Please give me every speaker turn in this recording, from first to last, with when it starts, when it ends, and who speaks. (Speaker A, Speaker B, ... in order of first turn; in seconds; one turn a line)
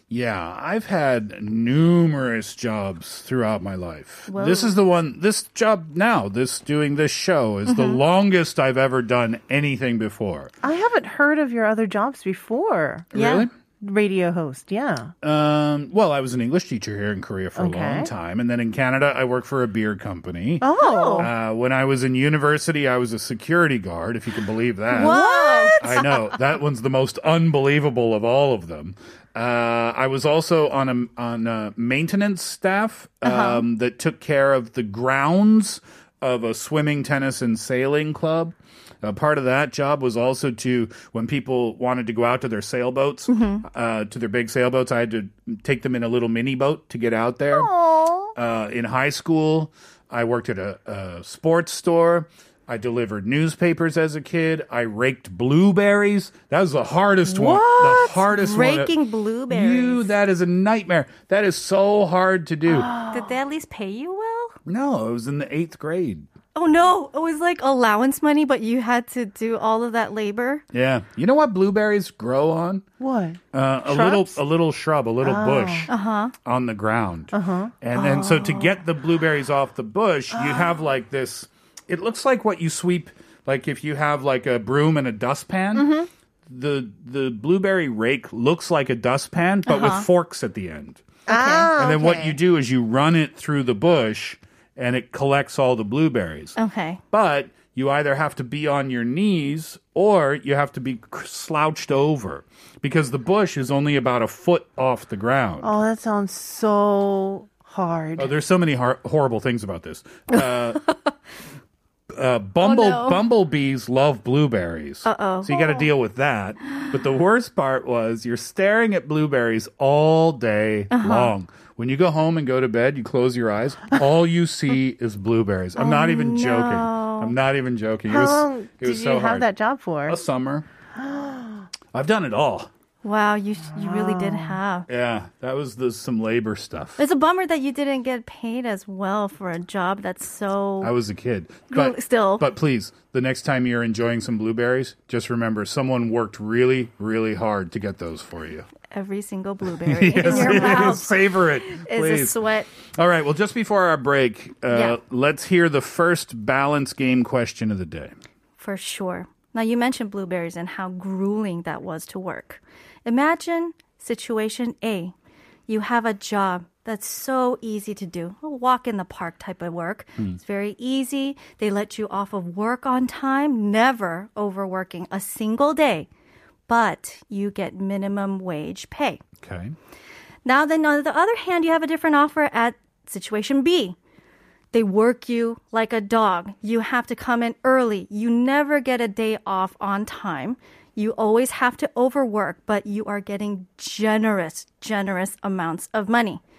Speaker A: 0.1-10.5
Speaker B: 4.3-4.8
Speaker B: 7.7-8.0
Speaker C: 10.6-13.1
Speaker A: 13.1-13.5
Speaker B: 13.1-13.5
Speaker C: 13.8-15.1
Speaker A: 15.2-25.2
Speaker C: 17.6-18.1
Speaker C: 20.6-21.3
Speaker B: 20.8-21.3
Speaker B: 24.9-26.1
Speaker C: 24.9-26.0
Speaker A: 25.8-47.7
Speaker B: 33.2-33.7
Speaker B: 43.3-43.6
Speaker C: 47.5-48.3
Speaker A: 48.4-59.0
Speaker C: 57.2-58.2
Speaker B: 58.3-60.1
Speaker A: 59.5-62.9
Speaker C: 62.7-63.4
Speaker B: 63.1-64.6
Speaker A: 64.7-66.3
Speaker B: 66.5-70.6
Speaker A: 70.7-72.9
Speaker C: 73.0-74.4
Speaker A: 73.5-75.9
Speaker C: 75.2-75.9
Speaker B: 75.9-76.3
Speaker A: 76.5-86.0
Speaker C: 77.3-77.7
Speaker B: 77.9-78.8
Speaker C: 80.3-80.7
Speaker C: 85.7-86.1
Speaker A: 86.5-91.0
Speaker B: 89.7-90.1
Speaker C: 91.3-92.4
Speaker B: 91.3-91.7
Speaker A: 91.8-96.6
Speaker B: 96.6-97.0
Speaker A: 97.1-105.7
Speaker C: 105.6-108.3
Speaker A: 108.2-110.8
Speaker A: 112.1-129.5
Speaker B: 112.6-113.2
Speaker B: 115.0-115.9
Speaker B: 120.9-121.3
Speaker B: 125.8-127.3
Speaker C: 128.1-130.2
Speaker A: 130.1-130.7
Speaker C: 131.0-131.7
Speaker A: 131.9-132.7
Speaker B: 133.0-134.9
Speaker C: 133.7-134.6
Speaker A: 134.9-137.0
Speaker B: 137.0-140.9
Speaker A: 140.8-148.7
Speaker B: 141.7-142.5
Speaker B: 148.9-152.7
Speaker A: 149.8-152.4
Speaker A: 152.9-158.2
Speaker B: 154.7-155.0
Speaker B: 158.6-165.1
Speaker B: 165.7-176.1
Speaker B: 176.7-179.2
Speaker A: 179.4-179.8
Speaker B: 180.4-184.0
Speaker B: 184.7-196.4